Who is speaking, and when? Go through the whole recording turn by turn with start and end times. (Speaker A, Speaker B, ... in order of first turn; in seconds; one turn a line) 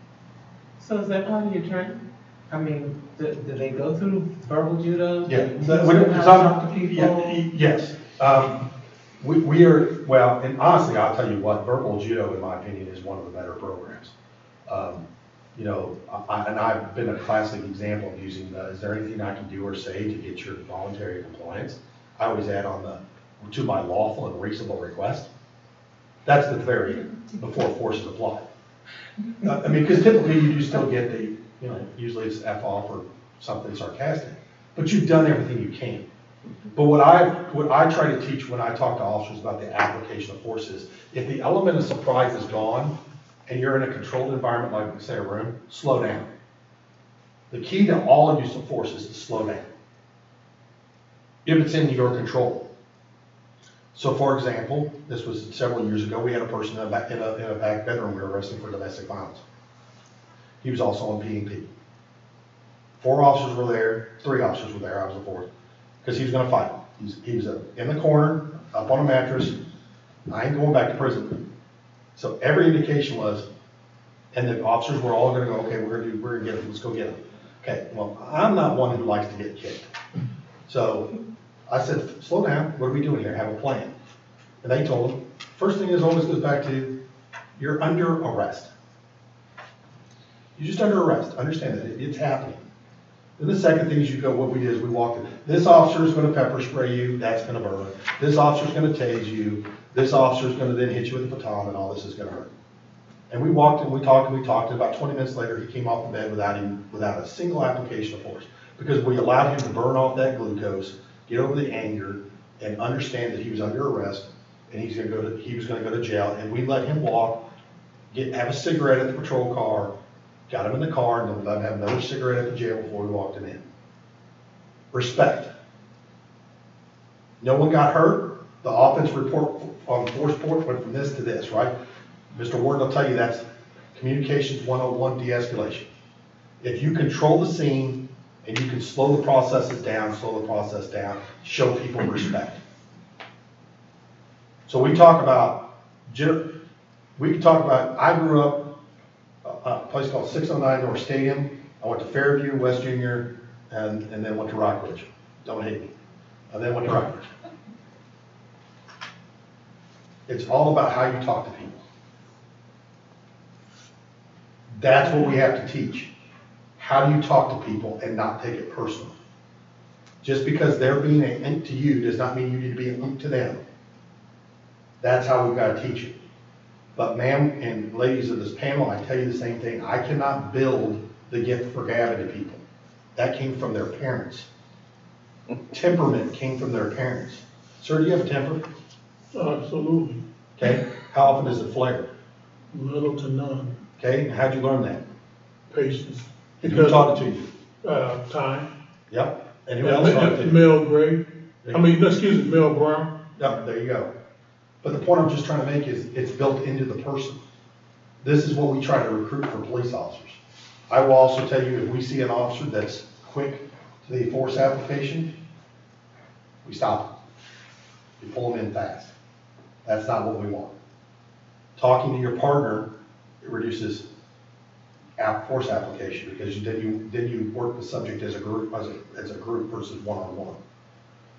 Speaker A: 0.8-7.4
Speaker B: 5.3-8.7
Speaker B: 9.2-14.1
Speaker B: 14.7-25.3
Speaker B: 26.2-28.5
Speaker B: 29.4-36.1
Speaker B: 36.7-43.0
Speaker B: 43.5-46.3
Speaker B: 47.5-49.7
Speaker B: 51.5-52.7
Speaker B: 53.9-59.4
Speaker B: 60.6-61.7
Speaker B: 63.0-65.5
Speaker B: 66.0-69.6
Speaker B: 70.3-71.4
Speaker B: 72.2-73.5
Speaker B: 74.3-79.9
Speaker B: 80.7-81.1
Speaker B: 81.7-83.9
Speaker B: 84.6-86.9
Speaker B: 87.6-88.7
Speaker B: 90.6-92.6
Speaker B: 93.4-102.5
Speaker B: 103.3-117.5
Speaker B: 118.1-119.9
Speaker B: 120.5-123.6
Speaker B: 124.9-125.5
Speaker B: 127.4-131.7
Speaker B: 132.3-135.9
Speaker B: 136.6-142.6
Speaker B: 144.7-146.5
Speaker B: 147.2-148.8
Speaker B: 149.4-155.9
Speaker B: 156.5-157.3
Speaker B: 160.3-161.8
Speaker B: 164.8-166.1
Speaker B: 166.8-169.1
Speaker B: 170.2-173.6
Speaker B: 175.0-176.2
Speaker B: 177.0-182.6
Speaker B: 183.2-184.5
Speaker B: 185.7-188.6
Speaker C: 189.3-190.2
Speaker B: 190.6-192.1
Speaker C: 192.7-193.8
Speaker B: 194.0-195.0
Speaker C: 195.7-197.2
Speaker B: 196.6-197.5
Speaker C: 197.8-198.7
Speaker B: 199.1-200.6
Speaker C: 199.8-203.1
Speaker B: 203.4-204.1
Speaker B: 204.8-207.4
Speaker B: 208.2-215.3
Speaker B: 216.6-217.1
Speaker B: 218.2-219.1
Speaker B: 219.8-220.7
Speaker B: 221.8-222.9
Speaker B: 223.4-224.1
Speaker B: 225.2-230.6